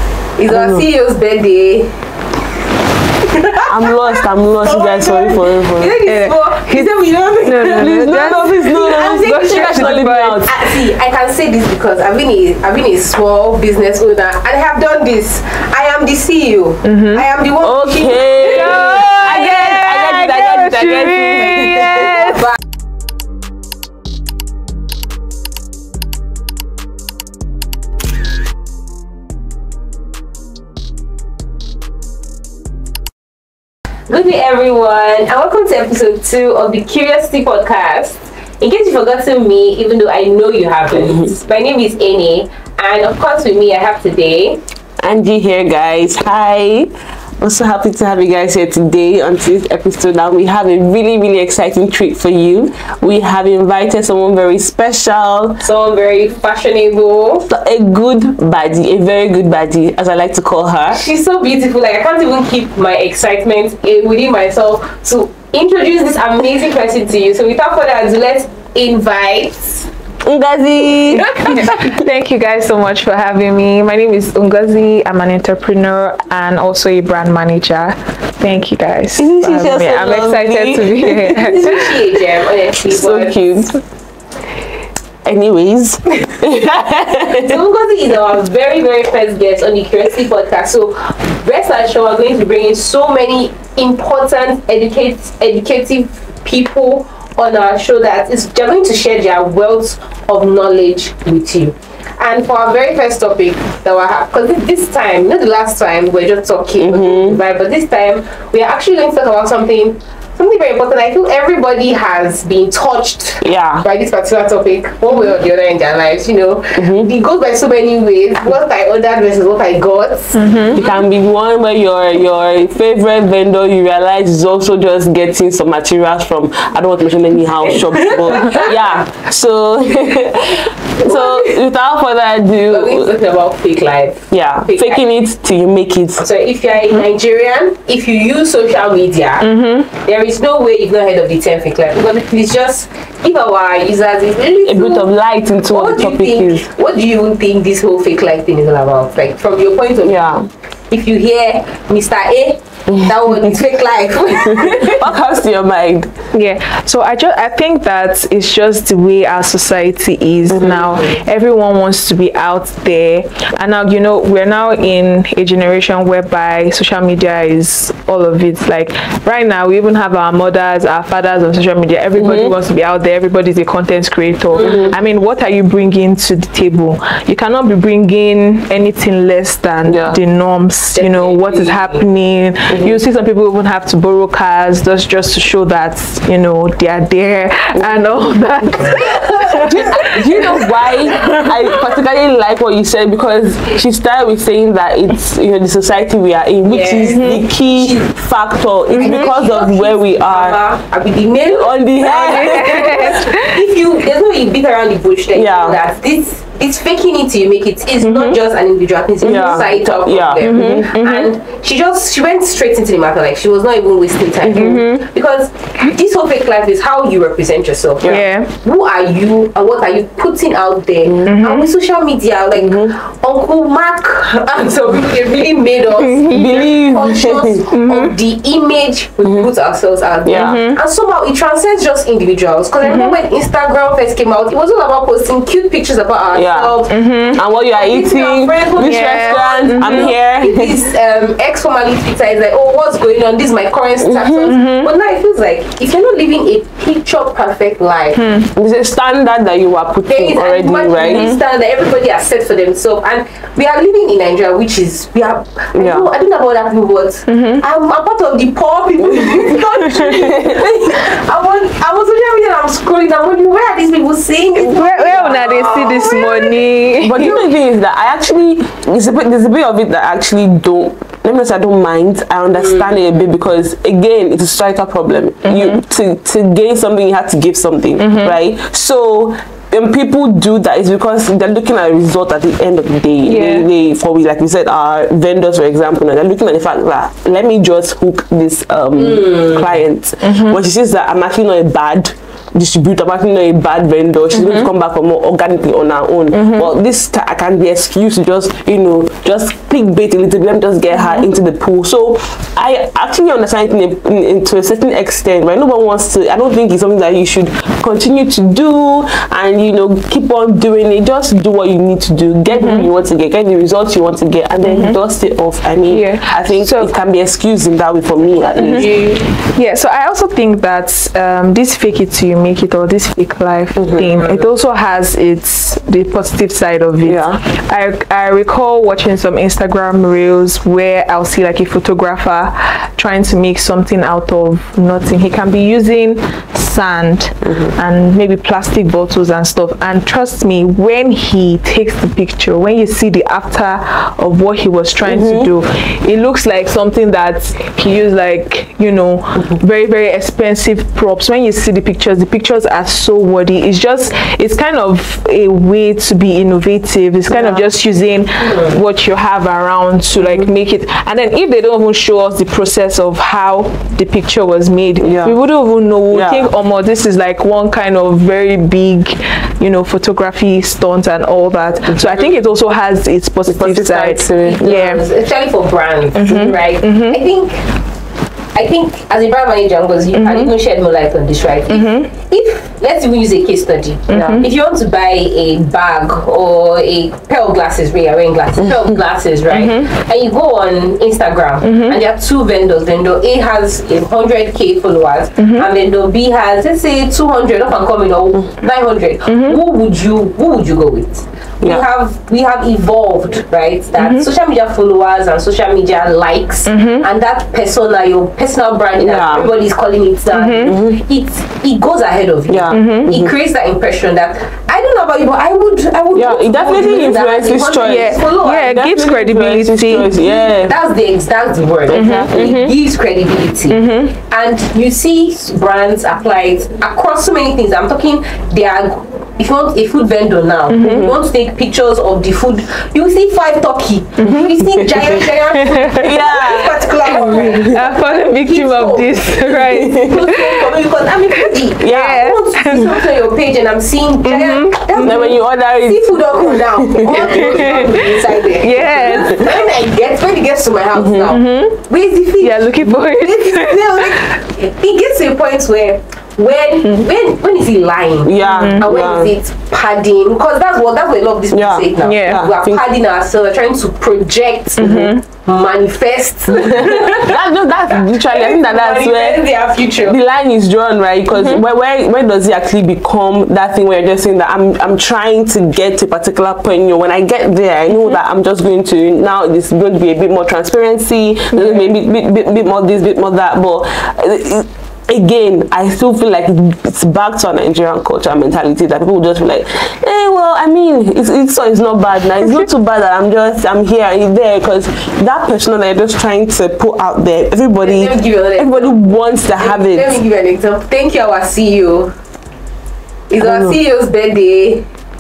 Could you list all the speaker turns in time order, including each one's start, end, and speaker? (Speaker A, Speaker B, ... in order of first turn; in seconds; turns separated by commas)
Speaker A: 0.4-2.0, Speaker B: 0.5-0.8, Speaker A: 3.2-19.1, Speaker B: 3.6-5.9, Speaker C: 6.0-6.9, Speaker C: 7.4-10.5, Speaker B: 7.5-10.6, Speaker C: 16.9-17.2, Speaker B: 17.6-22.3, Speaker C: 18.4-22.5, Speaker A: 34.1-44.6, Speaker B: 45.0-55.6, Speaker A: 55.6-57.5, Speaker B: 57.5-61.0, Speaker A: 60.9-69.9, Speaker B: 70.2-72.0, Speaker A: 71.1-71.8, Speaker C: 71.4-81.9, Speaker B: 79.2-81.6, Speaker A: 81.3-83.6, Speaker B: 82.8-83.8, Speaker B: 85.2-87.6, Speaker A: 87.3-120.9, Speaker B: 106.8-107.4, Speaker B: 113.4-113.9, Speaker B: 116.8-117.1, Speaker C: 120.3-120.8, Speaker B: 120.7-133.1, Speaker A: 128.0-128.7, Speaker A: 131.0-131.5, Speaker A: 132.7-135.0, Speaker B: 134.3-136.2, Speaker A: 136.2-145.1, Speaker C: 139.4-139.9, Speaker B: 144.7-146.7, Speaker A: 145.7-150.2, Speaker B: 150.0-150.5, Speaker A: 150.9-155.0, Speaker B: 152.9-153.6, Speaker B: 154.4-156.1, Speaker C: 156.3-191.5, Speaker B: 160.5-160.9, Speaker A: 160.6-161.2, Speaker B: 172.1-172.6, Speaker A: 174.6-174.9, Speaker B: 174.6-175.0, Speaker B: 179.9-180.2, Speaker A: 180.9-182.1, Speaker B: 182.7-183.0, Speaker A: 188.9-189.8, Speaker B: 189.7-200.6, Speaker A: 196.6-198.2, Speaker C: 197.0-197.5, Speaker C: 199.0-199.3, Speaker A: 199.0-248.2, Speaker B: 201.5-203.2, Speaker C: 202.1-203.6, Speaker B: 205.3-205.8, Speaker C: 208.0-208.4, Speaker B: 209.2-210.9, Speaker C: 210.4-211.3, Speaker B: 214.4-214.8, Speaker C: 214.5-215.1, Speaker C: 218.1-218.5, Speaker B: 221.1-221.3, Speaker C: 221.2-221.7, Speaker B: 222.6-222.9, Speaker C: 226.0-226.4, Speaker B: 226.3-227.6, Speaker C: 227.7-228.2, Speaker B: 230.2-230.6, Speaker C: 230.3-230.8, Speaker C: 232.8-233.2, Speaker B: 236.3-236.8, Speaker C: 236.9-237.4, Speaker B: 237.3-240.8, Speaker C: 238.8-240.1, Speaker B: 244.0-244.6, Speaker C: 244.5-244.9, Speaker C: 248.2-248.5, Speaker B: 248.6-251.4, Speaker A: 250.1-266.8, Speaker C: 251.0-251.4, Speaker B: 255.7-256.1, Speaker C: 257.3-257.6, Speaker B: 259.1-260.7, Speaker C: 264.6-267.4, Speaker B: 267.0-319.0, Speaker A: 272.6-273.1, Speaker C: 275.5-275.8, Speaker C: 278.0-278.4, Speaker C: 283.2-283.7, Speaker C: 290.2-290.6, Speaker C: 294.3-294.7, Speaker C: 296.3-296.7, Speaker C: 300.9-301.3, Speaker C: 312.5-312.9, Speaker C: 314.6-315.0, Speaker C: 315.9-316.9, Speaker C: 318.6-318.9, Speaker A: 318.6-319.2, Speaker C: 319.4-375.0, Speaker B: 323.8-324.2, Speaker B: 327.1-327.4, Speaker B: 345.1-345.5, Speaker B: 357.3-357.7, Speaker A: 358.5-358.8, Speaker B: 360.2-360.5, Speaker B: 365.0-365.4, Speaker B: 366.1-366.5, Speaker B: 371.9-372.3, Speaker B: 373.5-374.9, Speaker A: 374.4-377.7, Speaker C: 376.1-377.2, Speaker A: 378.6-418.8, Speaker C: 380.1-380.5, Speaker C: 381.7-382.1, Speaker C: 384.1-384.5, Speaker B: 384.1-384.5, Speaker C: 389.5-389.9, Speaker C: 391.6-392.0, Speaker C: 395.4-395.7, Speaker C: 399.3-399.6, Speaker C: 404.0-404.3, Speaker C: 406.7-407.1, Speaker B: 409.0-409.5, Speaker C: 410.3-410.8, Speaker B: 410.6-411.0, Speaker B: 412.5-413.3, Speaker C: 412.7-413.1, Speaker B: 416.1-420.8, Speaker C: 417.8-420.1, Speaker A: 420.1-470.2, Speaker B: 421.9-422.4, Speaker C: 421.9-422.7, Speaker C: 423.7-424.2, Speaker C: 430.7-431.1, Speaker B: 430.8-431.1, Speaker C: 434.2-434.5, Speaker B: 434.6-435.2, Speaker C: 435.8-436.3, Speaker B: 435.8-437.8, Speaker C: 437.1-440.6, Speaker B: 439.5-440.3, Speaker B: 441.8-442.3, Speaker C: 441.8-443.0, Speaker C: 444.2-445.3, Speaker B: 445.0-447.9, Speaker C: 447.2-449.5, Speaker B: 451.0-451.3, Speaker C: 451.3-451.8, Speaker C: 452.4-454.0, Speaker B: 458.2-459.3, Speaker C: 458.4-458.9, Speaker B: 461.5-462.9, Speaker C: 462.0-462.5, Speaker B: 464.8-465.1, Speaker C: 464.8-465.2, Speaker B: 466.5-500.2, Speaker C: 471.3-471.6, Speaker C: 481.5-481.9, Speaker A: 497.8-502.1, Speaker A: 503.3-504.9, Speaker B: 503.4-503.8